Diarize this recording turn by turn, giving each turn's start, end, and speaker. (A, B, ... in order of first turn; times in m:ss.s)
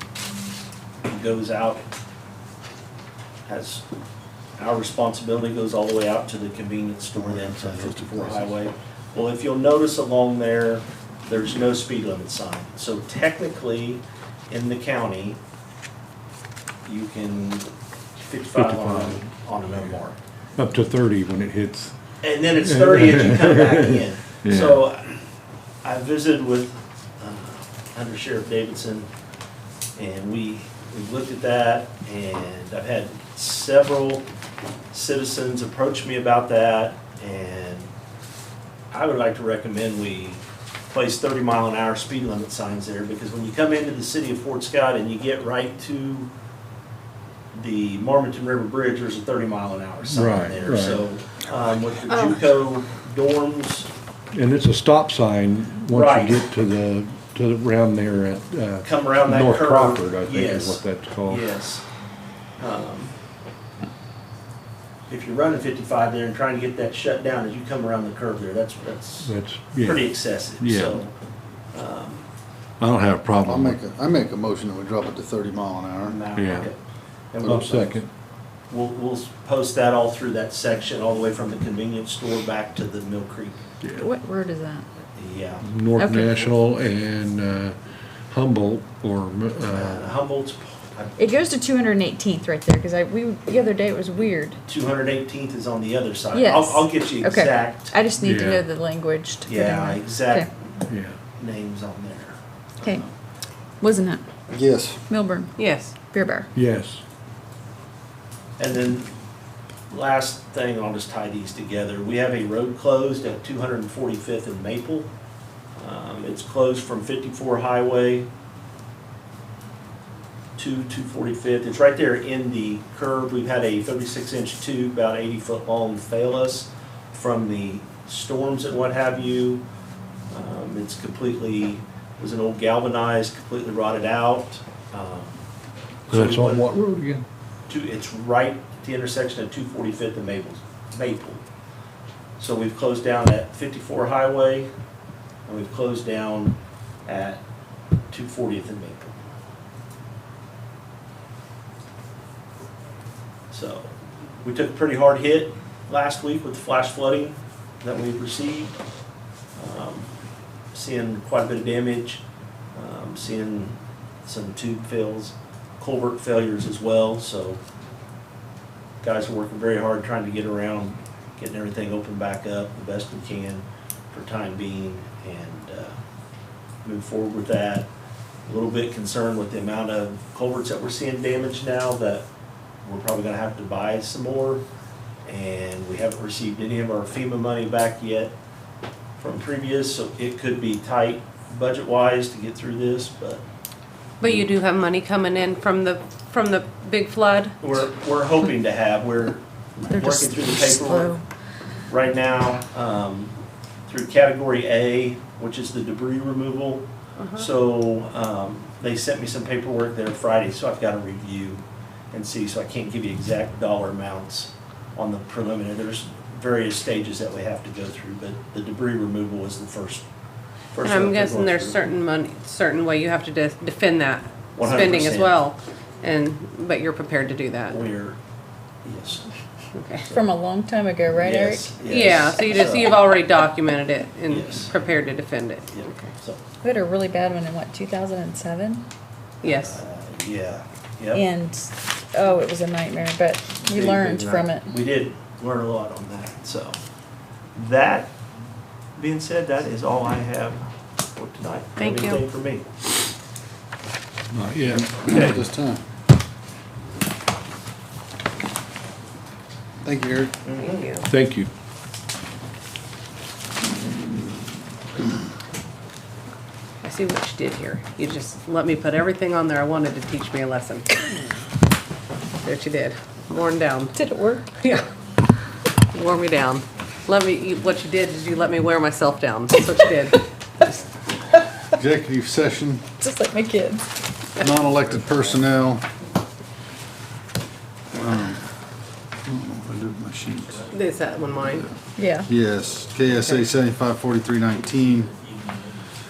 0:01.0-0:01.8 A
0:03.5-0:03.8 A
0:04.6-0:15.4 A
0:07.2-0:08.5 B
0:16.8-0:20.2 A
0:18.5-0:19.3 C
0:20.6-0:21.9 C
0:22.2-0:25.2 A
0:22.6-0:24.8 C
0:25.8-0:29.1 A
0:30.0-0:34.2 A
0:34.9-0:37.9 A
0:38.9-0:46.3 A
0:47.5-0:53.9 A
0:50.1-0:51.0 C
0:52.1-0:52.4 D
0:54.3-1:01.4 C
0:55.9-0:56.4 A
0:58.8-1:01.8 A
1:02.6-1:03.1 A
1:05.1-1:11.1 A
1:09.2-1:11.0 C
1:11.7-1:12.2 A
1:12.8-1:13.8 C
1:13.4-1:16.2 B
1:16.0-1:16.8 A
1:16.3-1:16.7 C
1:17.3-1:18.0 A
1:17.4-1:18.1 C
1:18.7-1:23.6 A
1:23.8-1:24.1 C
1:24.0-1:24.8 E
1:25.2-1:25.6 A
1:25.6-1:27.8 C
1:26.0-1:26.5 E
1:28.3-1:30.1 C
1:29.6-1:31.2 A
1:31.2-1:34.6 E
1:34.7-1:38.0 A
1:36.3-1:40.5 E
1:38.2-1:38.6 C
1:39.4-1:40.5 A
1:40.9-1:41.2 C
1:41.4-1:42.4 A
1:43.8-1:44.2 E
1:44.5-1:45.0 B
1:45.1-1:45.5 E
1:45.6-1:45.9 D
1:46.1-1:46.5 E
1:46.5-1:47.0 C
1:48.6-1:49.1 A
1:49.9-1:55.1 A
1:55.8-1:58.3 A
2:00.6-2:09.6 A
2:10.3-2:15.4 A
2:16.1-2:16.7 A
2:16.1-2:17.2 C
2:17.7-2:21.4 A
2:22.4-2:24.7 A
2:25.4-2:27.4 A
2:28.1-2:29.2 A
2:33.5-2:33.9 A
2:34.4-2:38.7 A
2:39.6-2:40.1 A
2:40.7-2:42.2 A
2:42.7-2:47.6 A
2:49.0-2:56.0 A
2:56.8-2:57.9 A
2:58.5-3:02.2 A
3:02.8-3:04.6 A
3:05.2-3:08.3 A
3:09.2-3:13.4 A
3:14.2-3:17.6 D
3:17.6-3:21.2 A
3:19.9-3:21.2 E
3:21.9-3:23.3 A
3:23.9-3:40.0 A
3:27.2-3:27.5 D
3:40.7-3:41.8 A
3:40.8-3:47.8 D
3:44.6-3:45.4 A
3:47.7-3:48.2 A
3:48.8-3:49.3 A
3:49.7-3:50.1 D
3:50.1-3:52.1 E
3:51.2-3:52.9 A
3:51.9-3:56.1 D
3:54.3-3:54.8 A
3:55.7-3:56.4 A
3:56.6-3:58.8 E
3:59.4-3:59.8 D
3:59.4-4:01.2 A
4:01.1-4:04.7 E
4:03.6-4:06.8 A
4:07.5-4:08.1 A
4:09.0-4:10.6 A
4:11.2-4:12.6 A
4:11.8-4:12.2 D
4:14.3-4:15.4 C
4:14.7-4:15.8 B
4:19.8-4:20.3 B
4:20.4-4:20.8 A
4:20.6-4:21.0 D
4:21.0-4:21.5 C
4:26.8-4:31.2 D
4:32.4-4:34.0 D
4:33.9-4:34.5 E
4:34.6-4:34.8 D
4:35.9-4:40.7 D
4:41.7-4:42.8 B
4:43.0-4:43.8 E
4:44.4-4:45.8 B
4:47.9-4:48.5 B
4:49.2-4:50.7 B
4:50.7-4:51.7 D
4:52.0-4:52.3 E
4:52.2-4:55.1 B